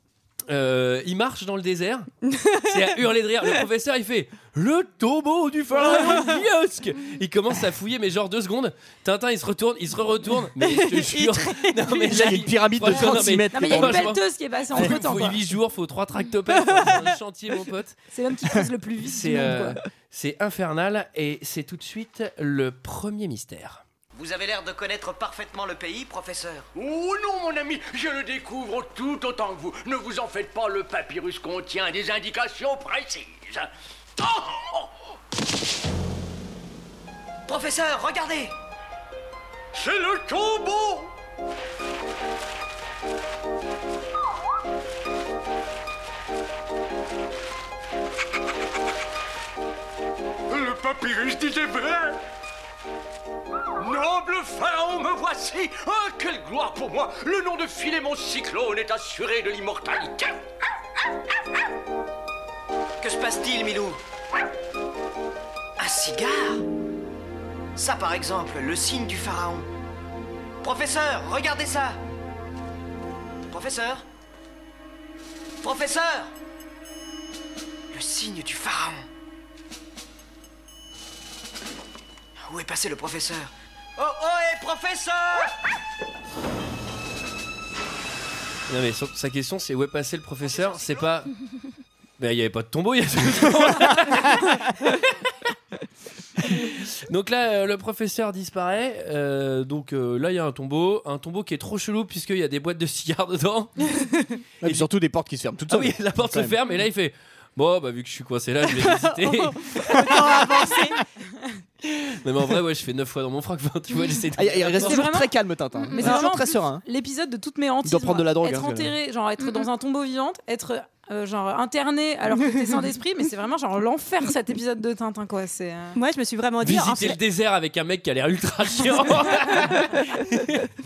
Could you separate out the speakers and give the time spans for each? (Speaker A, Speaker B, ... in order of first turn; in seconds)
Speaker A: 0.5-18.0, 19.0-23.8, 88.7-91.3, 92.2-95.1, 96.5-104.1, 104.6-104.9, 105.7-110.4, 111.8-115.1, 126.6-130.6
Speaker B: 10.6-12.3, 108.8-111.0, 126.0-127.2, 129.5-129.8
Speaker C: 12.0-14.1, 14.7-15.0, 104.6-106.6, 114.4-116.8, 117.8-118.9
Speaker D: 13.5-15.4, 18.1-19.8, 114.8-115.3, 115.9-126.0
Speaker E: 24.1-26.7, 37.5-38.5, 63.0-64.0, 65.8-66.6, 67.8-69.7, 70.6-72.0, 73.5-74.0, 75.6-76.3, 77.9-79.1, 82.5-85.5
Speaker F: 26.8-33.7, 34.2-34.9, 39.8-41.1, 50.5-52.2, 53.8-60.3